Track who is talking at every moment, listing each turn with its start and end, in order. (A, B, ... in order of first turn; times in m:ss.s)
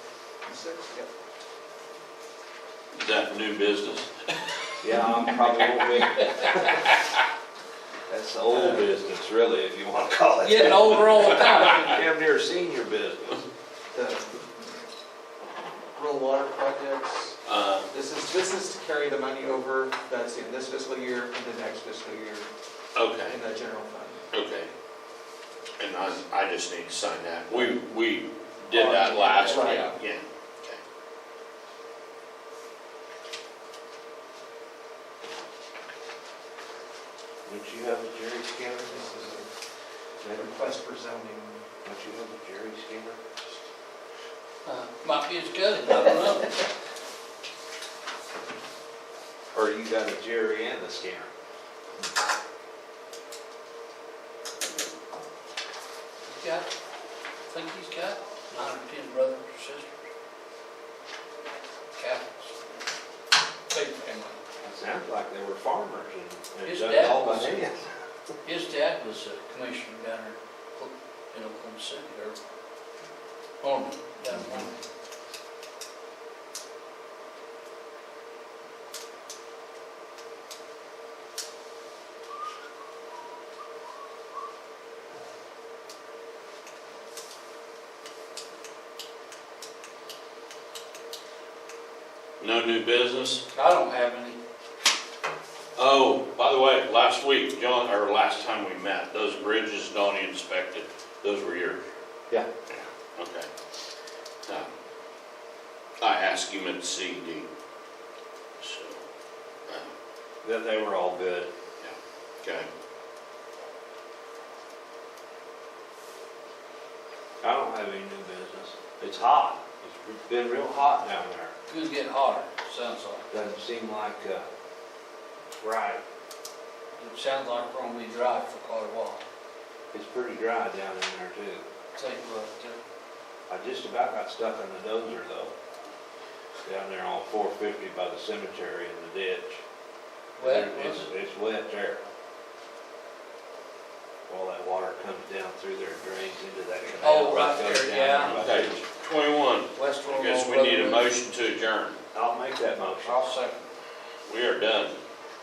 0:00.4-0:01.1 A
0:02.9-0:04.5 B
0:04.8-0:06.8 C
0:06.6-0:07.0 B
0:08.1-0:13.4 C
0:10.4-0:12.0 D
0:13.9-0:14.5 A
0:15.9-0:17.4 A
0:17.4-0:17.9 B
0:17.9-0:22.5 A
0:22.9-0:23.4 B
0:23.2-0:24.2 A
0:24.3-0:24.7 B
0:25.8-0:30.8 B
0:28.7-0:30.0 D
0:29.4-0:29.9 A
0:37.4-0:39.0 C
0:38.8-0:39.5 A
0:40.2-0:40.5 C
0:40.2-0:41.6 A
0:41.8-0:43.2 C
0:44.6-0:46.6 D
0:49.5-0:51.3 C
0:56.2-0:56.7 D
0:57.5-0:59.9 D
1:02.0-1:02.6 D
1:03.7-1:04.4 D
1:04.6-1:07.9 C
1:06.6-1:07.6 D
1:08.4-1:12.4 D
1:13.6-1:14.7 D
1:32.4-1:33.4 B
1:33.5-1:34.4 D
1:35.8-1:41.8 B
1:43.2-1:43.5 B
1:46.0-1:47.5 B
1:48.6-1:49.0 B
1:50.4-1:51.5 C
1:51.8-1:52.7 B
1:57.4-2:01.5 C
2:01.7-2:03.2 D
2:03.3-2:04.5 C
2:05.5-2:06.0 C
2:07.0-2:09.2 D
2:09.9-2:11.6 C
2:11.9-2:12.8 D
2:13.5-2:15.5 C
2:16.6-2:19.6 C
2:20.4-2:21.1 D
2:20.4-2:22.0 C
2:24.3-2:28.8 C
2:27.0-2:28.5 D
2:28.2-2:32.0 B
2:29.7-2:31.1 D
2:32.1-2:33.2 C
2:33.0-2:33.6 D
2:34.2-2:35.0 B